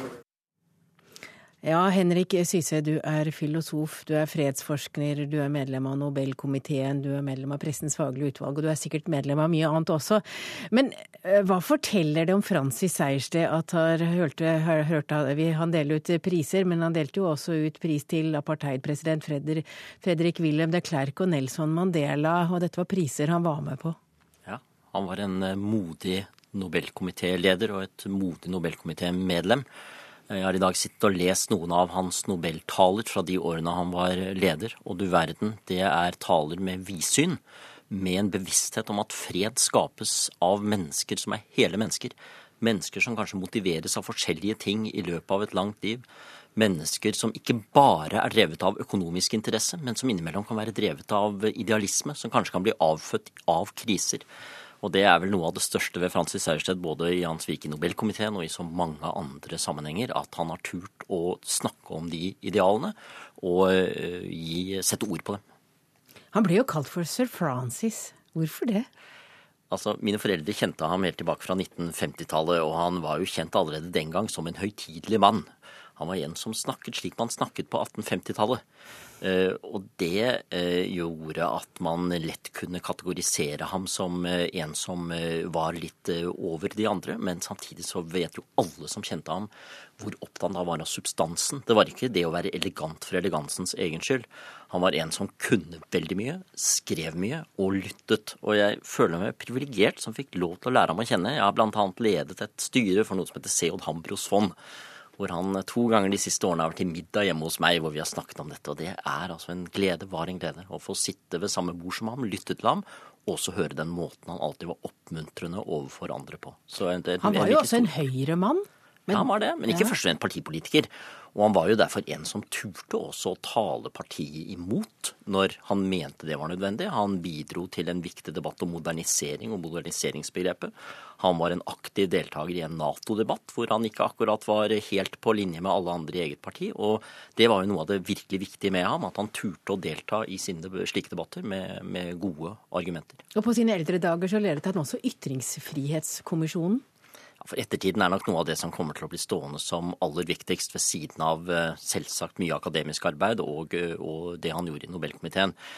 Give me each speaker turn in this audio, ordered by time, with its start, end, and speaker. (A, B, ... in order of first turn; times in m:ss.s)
0:01.6-0:24.0 A
0:24.4-0:29.7 B
0:30.3-0:46.0 B
0:46.6-0:54.3 B
0:54.8-1:05.4 B
1:06.3-1:08.9 A
1:09.7-1:18.6 B
1:19.2-1:44.6 B
1:45.2-1:57.9 B
1:57.2-2:00.0 A
1:59.1-2:23.2 B
2:23.4-2:26.8 A
2:27.4-2:35.6 B